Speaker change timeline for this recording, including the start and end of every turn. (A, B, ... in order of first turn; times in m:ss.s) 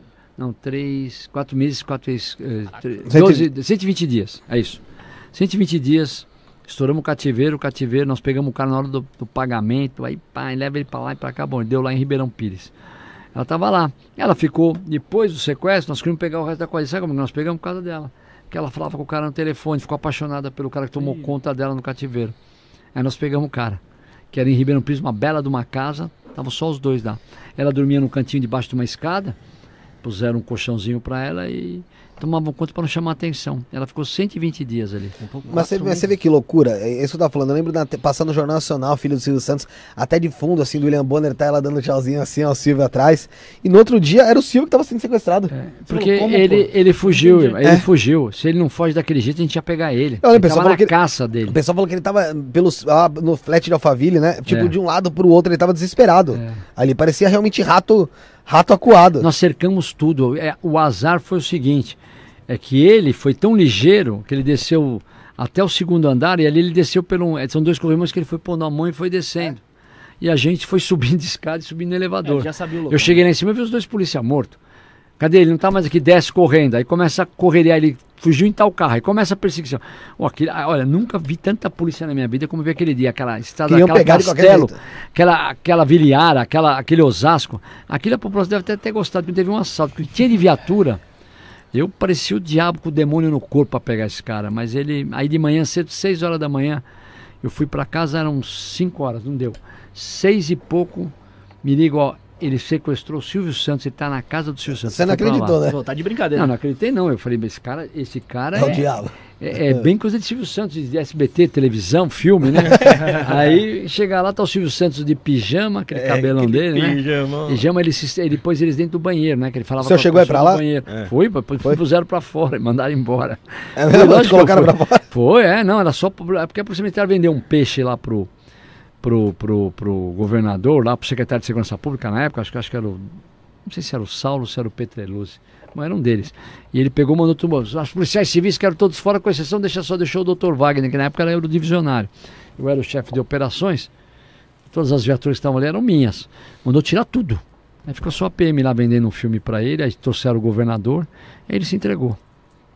0:00.4-0:04.8 A
0:03.1-0:03.5 B
0:05.3-0:12.7 A
0:13.3-0:22.4 A
0:22.9-0:23.8 A
0:24.3-0:29.4 A
0:30.0-0:35.2 A
0:35.2-0:36.0 C
0:35.5-0:45.5 B
0:45.5-0:51.6 A
0:45.9-0:47.6 C
0:50.2-0:50.9 B
0:51.5-0:59.3 B
0:54.5-0:54.8 A
0:56.3-0:56.6 A
0:59.2-1:02.0 A
1:02.5-1:09.6 A
1:10.2-1:14.6 A
1:12.2-1:13.2 C
1:15.2-1:31.0 A
1:23.7-1:24.8 B
1:31.7-1:36.8 A
1:37.4-1:45.6 A
1:44.8-1:45.8 B
1:45.7-1:46.5 C
1:46.3-1:48.9 A
1:48.6-1:49.9 B
1:49.4-2:08.3 A
1:55.9-1:57.6 C
1:59.8-2:00.6 B
2:03.8-2:05.0 B
2:09.0-2:13.1 A
2:13.7-2:23.9 A
2:24.7-2:32.2 A